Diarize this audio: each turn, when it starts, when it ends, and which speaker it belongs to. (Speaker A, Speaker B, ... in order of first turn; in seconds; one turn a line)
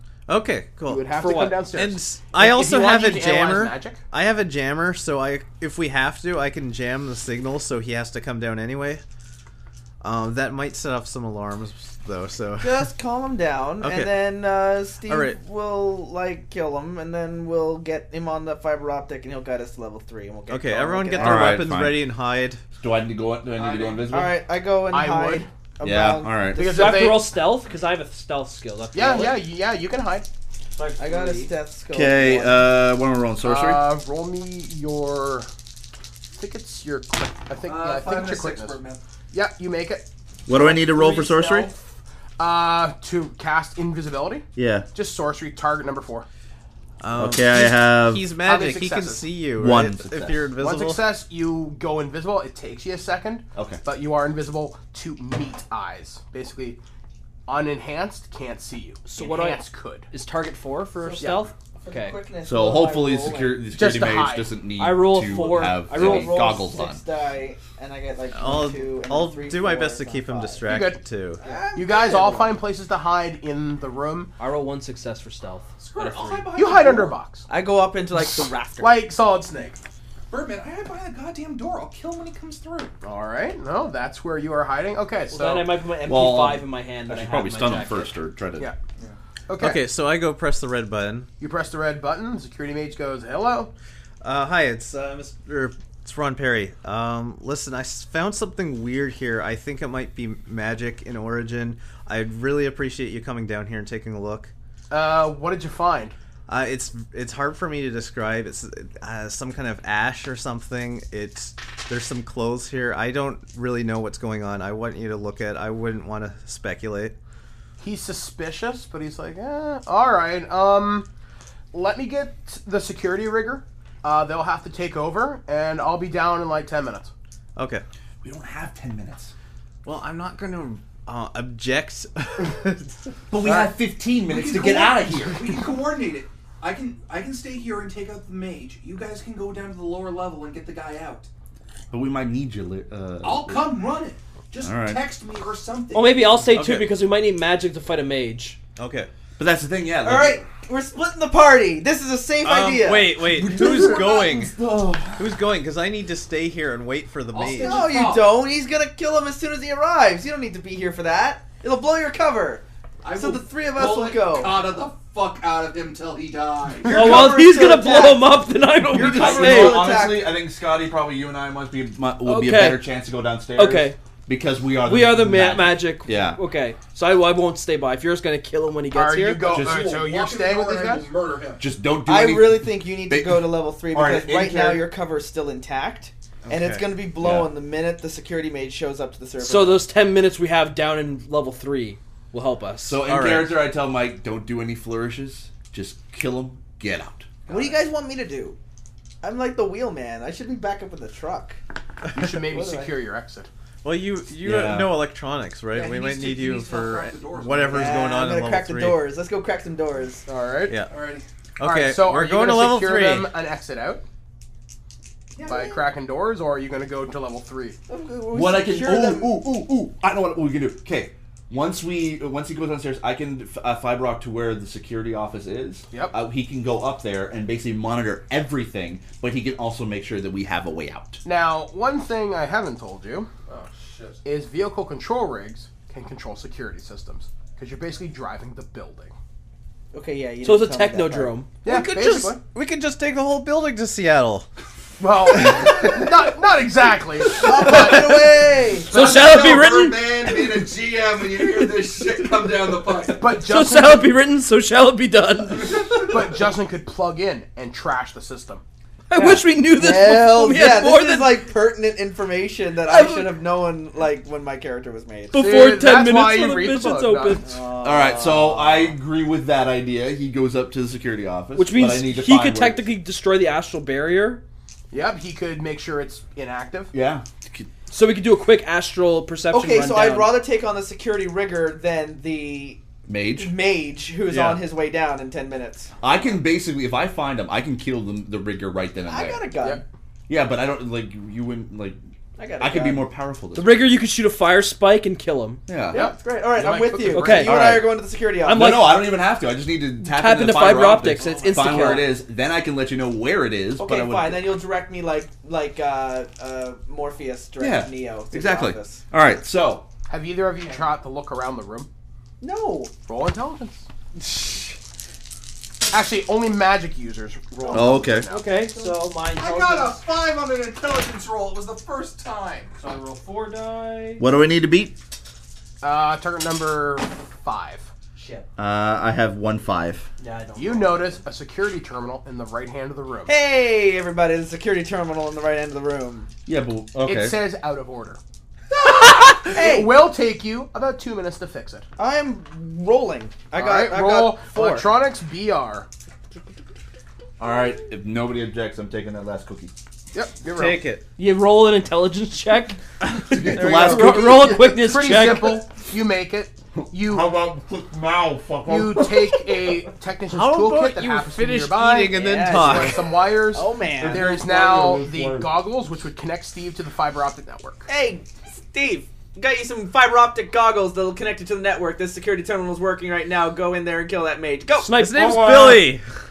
Speaker A: 0.3-9.0
Speaker B: 0.8-4.0
Speaker C: 1.2-1.6
Speaker A: 10.0-12.9
Speaker D: 12.6-21.6
Speaker A: 13.8-14.1
Speaker A: 15.1-15.4
Speaker A: 20.5-22.6
Speaker E: 21.2-22.1
Speaker E: 22.8-24.4
Speaker B: 23.6-24.1
Speaker D: 24.1-26.4
Speaker B: 24.9-25.5
Speaker E: 25.8-27.1
Speaker B: 26.5-27.4
Speaker C: 26.6-29.4
Speaker B: 28.9-30.3
Speaker C: 30.7-31.5
Speaker D: 31.0-32.7
Speaker E: 31.9-33.8
Speaker B: 33.4-35.5
Speaker B: 36.3-38.8
Speaker F: 37.6-39.0
Speaker B: 39.3-40.0
Speaker E: 40.5-41.7
Speaker C: 40.5-41.7
Speaker B: 42.4-46.3
Speaker E: 44.5-44.9
Speaker A: 47.0-51.0
Speaker E: 47.1-48.3
Speaker B: 48.4-49.4
Speaker E: 49.5-50.5
Speaker B: 50.6-56.8
Speaker E: 53.5-53.8
Speaker B: 57.5-60.1
Speaker C: 59.0-62.2
Speaker D: 61.0-63.7
Speaker B: 61.2-61.5
Speaker E: 62.4-67.0
Speaker B: 63.7-64.5
Speaker C: 64.8-66.5
Speaker D: 65.8-70.6
Speaker A: 68.3-71.4
Speaker B: 70.7-71.0
Speaker D: 71.4-72.6
Speaker B: 71.7-74.3
Speaker C: 74.4-76.5
Speaker F: 75.8-77.1
Speaker B: 76.5-77.5
Speaker D: 77.5-79.0
Speaker B: 78.8-79.8
Speaker F: 80.3-82.9
Speaker B: 83.0-85.7
Speaker C: 85.3-88.1
Speaker E: 86.0-88.7
Speaker B: 89.5-89.9
Speaker A: 89.6-91.3
Speaker B: 91.4-93.7
Speaker A: 94.2-104.5
Speaker B: 104.9-106.1
Speaker A: 106.5-117.2
Speaker B: 117.8-121.1
Speaker B: 121.7-127.1
Speaker A: 127.5-127.8
Speaker E: 128.2-129.3
Speaker A: 129.8-132.9
Speaker E: 133.3-135.7
Speaker F: 134.3-141.3
Speaker E: 141.9-143.7
Speaker F: 143.2-146.3
Speaker E: 144.6-145.0
Speaker C: 145.9-148.6
Speaker A: 146.4-146.9
Speaker A: 148.8-149.1
Speaker E: 149.4-150.5
Speaker D: 150.0-153.2
Speaker A: 152.4-154.6
Speaker E: 153.1-155.3
Speaker A: 155.2-157.9
Speaker F: 157.3-158.4
Speaker D: 157.6-164.6
Speaker F: 163.0-167.0
Speaker E: 166.9-167.4
Speaker D: 166.9-170.3
Speaker C: 166.9-169.8
Speaker E: 168.9-176.4
Speaker C: 172.2-172.8
Speaker C: 173.5-174.0
Speaker C: 174.8-179.4
Speaker B: 178.9-181.1
Speaker F: 179.4-181.6
Speaker E: 179.5-180.0
Speaker E: 181.6-184.9
Speaker D: 182.1-189.8
Speaker A: 186.5-186.9
Speaker E: 187.2-187.6
Speaker C: 189.4-193.0
Speaker E: 192.8-197.5
Speaker A: 193.1-193.6
Speaker D: 197.5-198.6
Speaker D: 199.2-201.6
Speaker B: 202.1-203.5
Speaker D: 202.4-203.0
Speaker A: 203.8-209.1
Speaker E: 204.4-205.0
Speaker F: 205.7-208.1
Speaker D: 207.7-210.2
Speaker B: 210.2-210.8
Speaker F: 210.9-211.2
Speaker A: 211.6-213.3
Speaker B: 211.6-214.0
Speaker D: 215.3-215.8
Speaker B: 215.4-217.8
Speaker D: 217.9-219.4
Speaker E: 218.3-231.2
Speaker B: 225.9-226.2
Speaker B: 231.2-233.3
Speaker F: 233.5-234.2
Speaker B: 234.2-239.1
Speaker D: 239.9-241.4
Speaker C: 240.4-241.5
Speaker B: 241.6-242.4
Speaker A: 241.6-244.5
Speaker B: 245.0-249.5
Speaker D: 247.3-249.0
Speaker C: 248.9-250.1
Speaker F: 248.9-253.2
Speaker C: 253.1-255.9
Speaker B: 253.2-254.1
Speaker B: 255.8-258.6
Speaker C: 259.1-261.5
Speaker D: 259.2-265.4
Speaker C: 262.9-263.4
Speaker C: 265.3-267.4
Speaker B: 265.3-267.5
Speaker D: 267.4-268.9
Speaker E: 267.8-272.8
Speaker C: 271.6-274.4
Speaker B: 274.9-276.9
Speaker E: 276.9-277.7
Speaker C: 277.9-280.4
Speaker D: 279.5-282.8
Speaker E: 283.1-283.6
Speaker D: 283.4-285.9
Speaker E: 284.2-284.7
Speaker E: 286.0-289.5
Speaker D: 289.1-289.8
Speaker B: 289.6-289.8
Speaker E: 290.3-292.0
Speaker D: 292.4-293.1
Speaker E: 292.6-293.8
Speaker C: 293.5-295.6
Speaker E: 295.7-296.1
Speaker B: 295.9-297.7
Speaker D: 295.9-298.7
Speaker C: 297.0-297.5
Speaker E: 297.4-297.9
Speaker C: 298.4-299.1
Speaker E: 298.5-304.6
Speaker C: 300.0-302.1
Speaker D: 301.2-301.8
Speaker D: 303.8-309.0
Speaker E: 307.6-309.9
Speaker B: 310.1-311.9
Speaker D: 312.4-312.9
Speaker B: 313.0-313.8
Speaker B: 315.9-318.9
Speaker E: 317.7-318.3
Speaker C: 318.3-320.0
Speaker F: 319.3-322.7
Speaker C: 322.8-324.2
Speaker E: 324.2-324.9
Speaker B: 325.8-327.9
Speaker C: 328.1-328.4
Speaker E: 328.6-330.1
Speaker C: 330.2-331.2
Speaker B: 330.6-333.3
Speaker D: 333.2-336.3
Speaker E: 336.4-337.4
Speaker B: 337.0-338.2
Speaker B: 338.7-341.9
Speaker D: 339.4-340.0
Speaker D: 342.0-344.8
Speaker B: 343.5-345.9
Speaker E: 347.4-349.7
Speaker B: 350.1-350.8
Speaker A: 350.5-351.0
Speaker C: 351.2-355.6
Speaker E: 353.2-354.6
Speaker A: 353.6-354.2
Speaker B: 354.5-357.4
Speaker E: 356.8-359.3
Speaker B: 358.6-367.9
Speaker A: 360.3-363.1
Speaker D: 362.1-364.2
Speaker E: 364.0-365.6
Speaker D: 367.9-375.0
Speaker C: 374.8-375.5
Speaker A: 374.9-376.0
Speaker E: 375.1-375.9